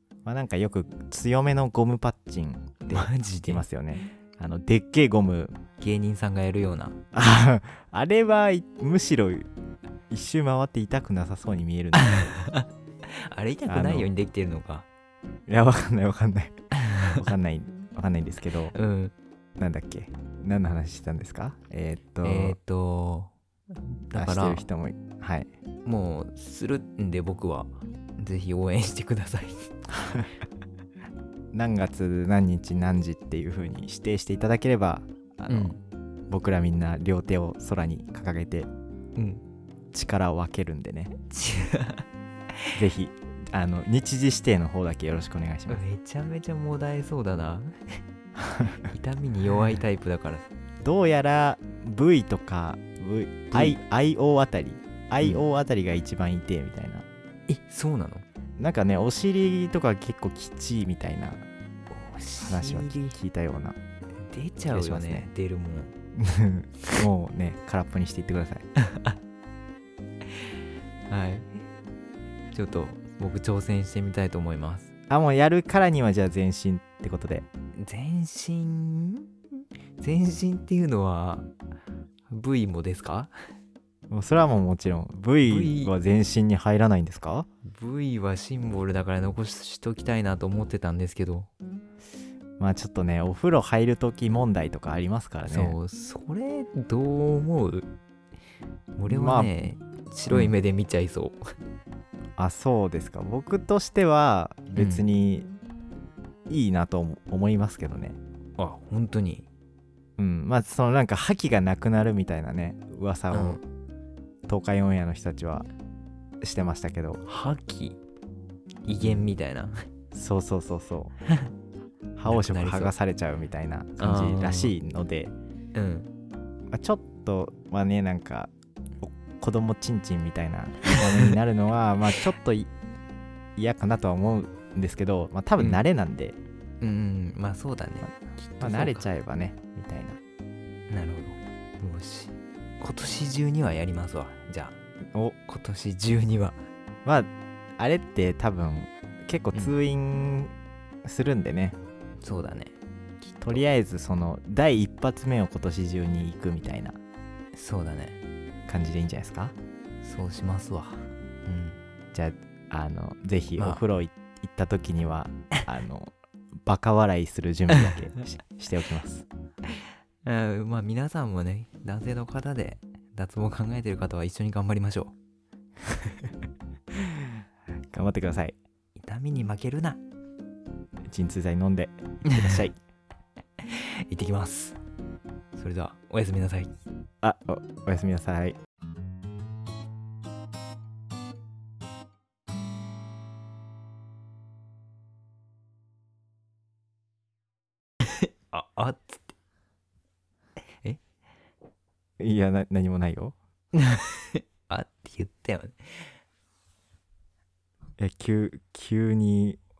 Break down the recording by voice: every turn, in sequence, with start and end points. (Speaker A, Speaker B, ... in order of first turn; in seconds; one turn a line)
Speaker A: 0.2-5.6
Speaker B: 2.8-3.6
Speaker B: 5.8-7.0
Speaker A: 7.1-9.5
Speaker A: 10.1-12.2
Speaker B: 11.9-14.8
Speaker A: 13.7-14.1
Speaker A: 15.5-16.5
Speaker B: 16.8-17.2
Speaker A: 17.1-18.7
Speaker B: 18.7-19.1
Speaker A: 19.6-22.6
Speaker B: 22.2-24.6
Speaker A: 24.1-25.5
Speaker B: 25.9-29.7
Speaker A: 30.0-30.3
Speaker A: 31.5-35.7
Speaker B: 35.5-35.8
Speaker A: 36.3-38.7
Speaker B: 39.2-39.4
Speaker A: 39.9-41.1
Speaker B: 41.3-42.0
Speaker A: 42.8-45.8
Speaker B: 45.7-47.7
Speaker A: 48.5-48.7
Speaker B: 48.8-50.5
Speaker A: 50.8-57.0
Speaker B: 53.5-53.8
Speaker B: 55.2-55.5
Speaker B: 57.5-58.2
Speaker A: 58.6-61.5
Speaker B: 61.9-63.2
Speaker A: 62.4-63.8
Speaker B: 64.3-65.9
Speaker A: 64.7-65.3
Speaker A: 66.2-68.6
Speaker B: 68.8-69.2
Speaker B: 71.1-71.6
Speaker B: 72.5-74.9
Speaker A: 75.1-77.4
Speaker B: 77.8-79.3
Speaker B: 80.0-81.5
Speaker B: 82.3-83.3
Speaker A: 84.1-87.5
Speaker B: 85.4-85.9
Speaker B: 87.6-91.5
Speaker A: 92.6-95.8
Speaker B: 95.5-97.9
Speaker B: 99.0-101.4
Speaker A: 99.0-99.5
Speaker A: 100.3-100.5
Speaker A: 102.4-105.5
Speaker B: 104.8-105.0
Speaker A: 106.5-108.2
Speaker B: 108.6-109.5
Speaker A: 110.2-113.6
Speaker B: 113.3-113.6
Speaker A: 114.5-115.7
Speaker A: 116.4-117.2
Speaker B: 117.2-118.0
Speaker B: 118.9-119.8
Speaker A: 120.1-121.1
Speaker A: 122.2-125.3
Speaker B: 122.2-122.9
Speaker B: 124.0-124.7
Speaker B: 125.7-126.1
Speaker A: 126.7-132.7
Speaker B: 130.9-131.3
Speaker A: 133.6-136.4
Speaker B: 136.8-139.1
Speaker A: 138.6-140.2
Speaker B: 140.9-144.8
Speaker B: 145.4-146.6
Speaker A: 147.0-150.5
Speaker A: 151.0-151.8
Speaker B: 152.2-153.6
Speaker A: 153.4-157.0
Speaker B: 157.5-158.2
Speaker A: 158.7-159.5
Speaker B: 160.0-161.8
Speaker A: 162.1-166.1
Speaker B: 163.6-163.8
Speaker A: 166.6-169.2
Speaker B: 170.2-175.1
Speaker A: 177.9-178.5
Speaker B: 179.0-180.0
Speaker A: 181.1-182.7
Speaker B: 182.3-182.7
Speaker B: 183.6-184.8
Speaker B: 185.6-186.7
Speaker A: 187.2-188.6
Speaker B: 198.1-199.3
Speaker A: 202.2-203.3
Speaker B: 203.7-206.1
Speaker A: 208.0-209.6